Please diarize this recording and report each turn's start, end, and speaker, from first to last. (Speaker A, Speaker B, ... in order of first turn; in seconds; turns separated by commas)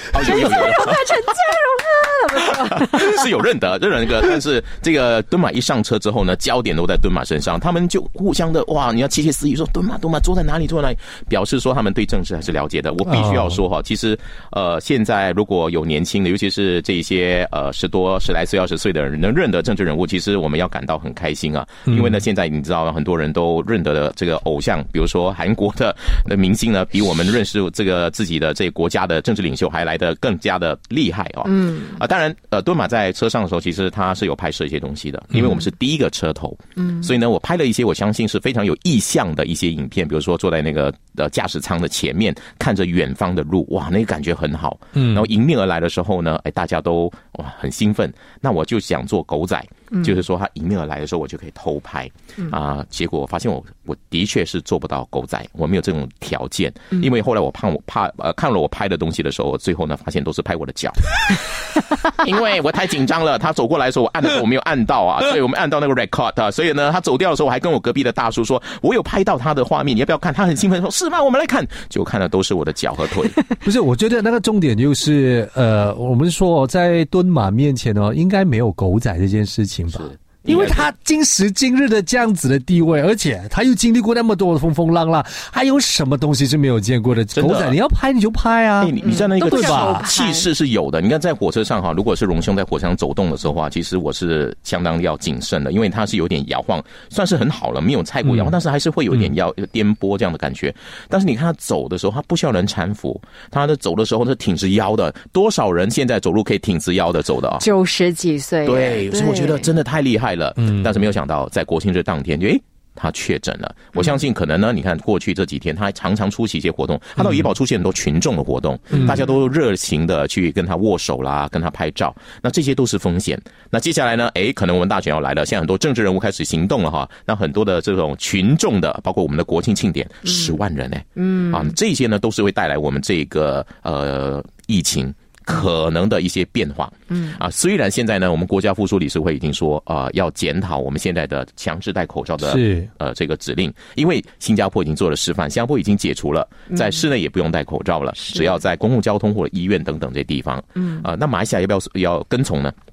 Speaker A: 0.1-1.1, Speaker B: 0.2-3.2, Speaker A: 2.4-73.4, Speaker C: 13.1-13.6, Speaker C: 21.9-22.2, Speaker B: 31.5-32.0, Speaker B: 36.8-37.1, Speaker C: 45.0-45.3, Speaker C: 73.6-90.0, Speaker A: 79.9-80.9, Speaker A: 87.3-87.8, Speaker A: 88.8-107.7, Speaker B: 89.0-90.5, Speaker C: 98.3-98.5, Speaker B: 107.6-109.7, Speaker A: 108.7-152.8, Speaker B: 118.9-119.2, Speaker B: 130.3-130.5, Speaker B: 131.2-131.7, Speaker B: 137.1-137.4, Speaker C: 142.4-142.9, Speaker B: 148.2-148.5